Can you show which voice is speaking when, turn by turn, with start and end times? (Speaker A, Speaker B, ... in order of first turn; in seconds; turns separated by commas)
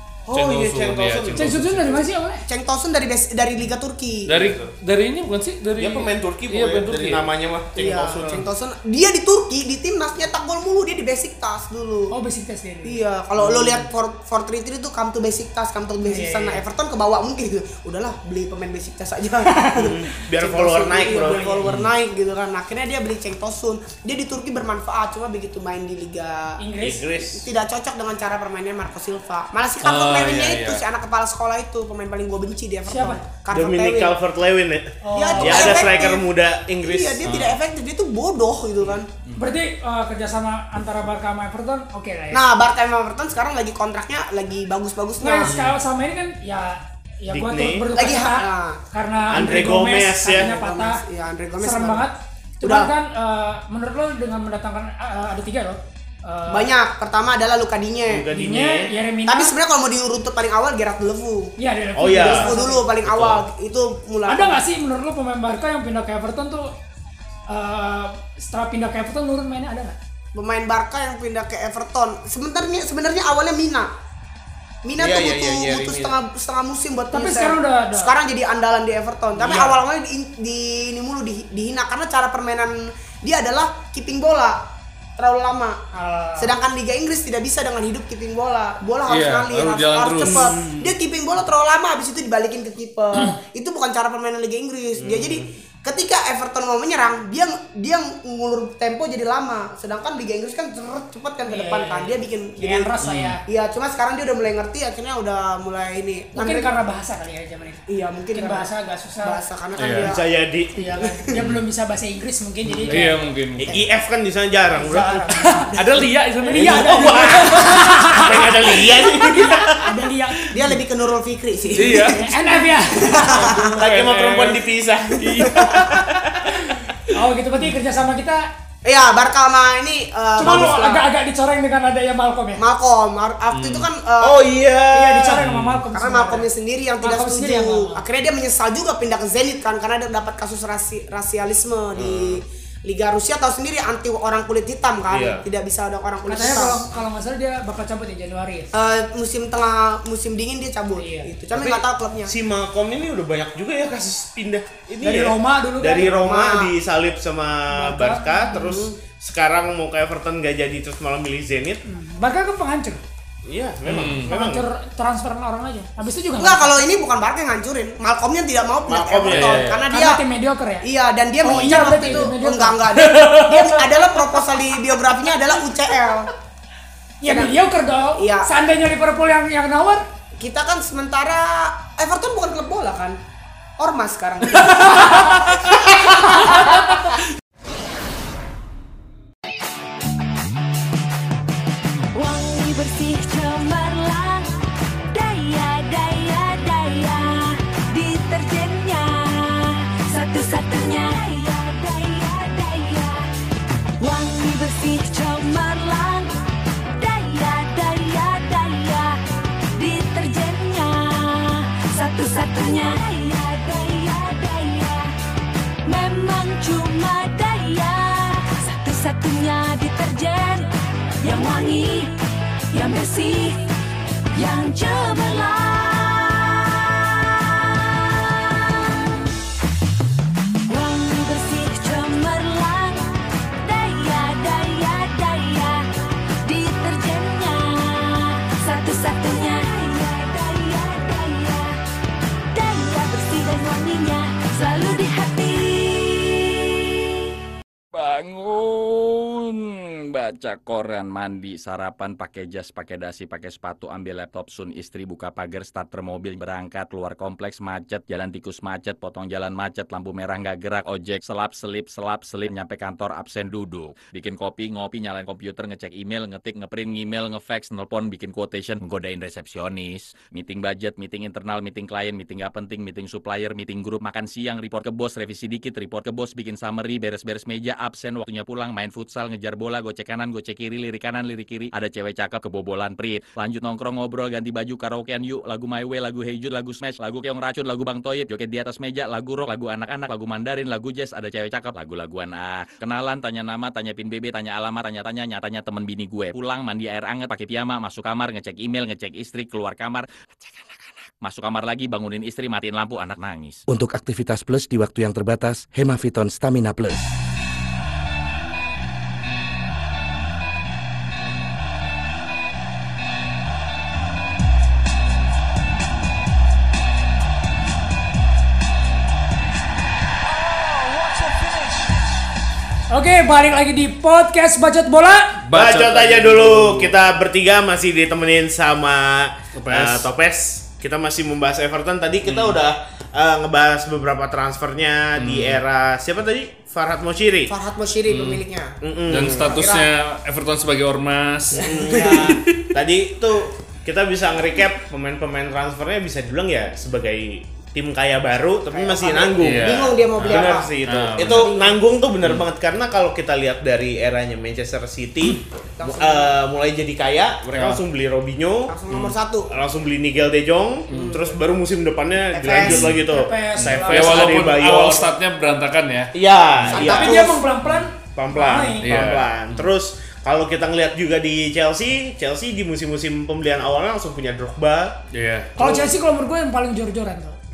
Speaker A: 0.3-1.4, Speaker B: 0.3-2.0, Speaker C: 1.3-2.4, Speaker D: 2.5-4.4, Speaker B: 4.3-7.3, Speaker A: 4.3-4.7, Speaker A: 5.8-8.5, Speaker D: 7.7-12.1, Speaker C: 12.1-13.0, Speaker D: 12.8-26.6, Speaker A: 13.4-13.9, Speaker C: 16.0-16.6, Speaker A: 19.8-21.7, Speaker C: 21.2-21.6, Speaker C: 26.6-27.0, Speaker A: 26.8-27.5, Speaker D: 27.2-34.2, Speaker B: 29.8-30.8, Speaker C: 32.9-33.2, Speaker A: 33.5-37.5, Speaker C: 35.0-36.1, Speaker D: 35.1-39.1, Speaker B: 37.2-37.5, Speaker C: 39.4-42.4, Speaker D: 42.3-45.5, Speaker C: 45.2-51.0, Speaker A: 47.3-47.9, Speaker D: 47.9-48.8, Speaker A: 49.3-50.5, Speaker D: 49.4-52.1, Speaker C: 51.6-56.7, Speaker D: 52.6-52.9, Speaker D: 56.5-58.3, Speaker A: 58.1-58.9, Speaker C: 58.3-59.5, Speaker D: 59.3-61.5, Speaker C: 61.6-62.9, Speaker A: 62.0-63.4, Speaker D: 62.1-64.6, Speaker C: 64.3-66.7, Speaker C: 67.5-70.0, Speaker D: 70.3-73.9, Speaker D: 74.8-84.6, Speaker A: 75.0-76.1, Speaker C: 77.1-78.1, Speaker D: 85.2-85.8, Speaker C: 85.9-86.5, Speaker D: 86.4-102.9, Speaker B: 89.1-90.5, Speaker A: 90.2-90.9, Speaker A: 94.9-95.5, Speaker C: 101.5-103.4, Speaker B: 103.0-103.4, Speaker D: 103.5-106.7, Speaker C: 106.3-107.8, Speaker D: 107.9-108.7, Speaker C: 108.3-109.4, Speaker D: 109.2-110.3, Speaker B: 109.8-110.1, Speaker A: 110.0-110.7, Speaker C: 110.8-113.1, Speaker B: 111.3-111.6, Speaker A: 112.7-113.0, Speaker B: 112.9-113.7, Speaker A: 113.6-115.2, Speaker C: 114.8-115.7, Speaker B: 115.7-117.8, Speaker A: 116.5-119.9, Speaker C: 116.5-120.5, Speaker D: 120.5-122.2, Speaker B: 121.7-122.3, Speaker C: 122.0-123.2, Speaker D: 122.9-123.7, Speaker B: 123.2-124.6, Speaker A: 123.5-126.0, Speaker B: 125.2-126.2, Speaker C: 127.1-128.4, Speaker D: 128.8-131.0, Speaker C: 130.4-132.6, Speaker D: 132.6-134.5, Speaker B: 133.5-133.9, Speaker A: 134.2-135.4, Speaker C: 134.9-136.5, Speaker B: 135.4-135.8, Speaker D: 135.9-146.9, Speaker C: 137.0-138.0, Speaker A: 141.9-142.4, Speaker A: 145.1-145.4, Speaker C: 146.2-148.7, Speaker D: 148.7-152.3, Speaker C: 151.0-151.3, Speaker A: 151.5-161.8, Speaker C: 155.0-156.2, Speaker D: 156.0-156.7, Speaker C: 157.7-158.8, Speaker D: 158.6-159.0, Speaker C: 161.8-163.0, Speaker A: 163.4-164.6, Speaker B: 163.9-164.3, Speaker C: 164.2-166.8, Speaker D: 166.4-170.2, Speaker A: 168.8-169.7, Speaker B: 169.3-169.8, Speaker C: 169.9-170.8, Speaker D: 170.8-176.3, Speaker C: 171.4-172.8, Speaker B: 173.0-173.8, Speaker C: 177.2-180.0, Speaker D: 177.2-177.5, Speaker D: 178.2-178.5, Speaker D: 180.4-183.2, Speaker D: 183.8-185.2, Speaker E: 192.1-194.5, Speaker E: 195.1-203.3, Speaker E: 204.0-206.3, Speaker E: 206.9-209.2, Speaker E: 209.7-215.1, Speaker E: 215.8-220.7, Speaker E: 221.2-222.1, Speaker E: 222.7-223.6, Speaker E: 224.3-229.1, Speaker E: 230.7-233.1, Speaker E: 233.6-235.9, Speaker E: 236.4-241.8, Speaker E: 242.5-246.8, Speaker F: 247.9-303.6, Speaker G: 303.7-307.1, Speaker C: 322.9-325.4, Speaker B: 325.4-326.9, Speaker A: 325.5-337.5, Speaker B: 329.6-330.1, Speaker B: 332.2-332.6, Speaker B: 335.2-335.6, Speaker D: 337.5-338.8, Speaker B: 338.1-338.4, Speaker A: 338.8-339.7, Speaker B: 339.1-342.4, Speaker D: 339.3-339.9, Speaker A: 341.6-358.8, Speaker D: 341.8-342.3, Speaker D: 348.7-351.8, Speaker B: 349.4-351.5, Speaker D: 355.8-356.4, Speaker B: 357.5-357.8, Speaker D: 358.7-359.5, Speaker A: 359.5-365.1, Speaker B: 360.9-361.1, Speaker D: 360.9-361.4, Speaker D: 362.3-362.9, Speaker B: 362.6-362.9, Speaker C: 362.9-364.4, Speaker B: 363.6-366.9, Speaker A: 366.1-367.3, Speaker D: 366.7-367.4, Speaker C: 366.8-368.9, Speaker A: 368.1-374.9, Speaker B: 368.8-369.7, Speaker B: 375.1-375.5, Speaker C: 375.6-377.4, Speaker A: 375.6-375.9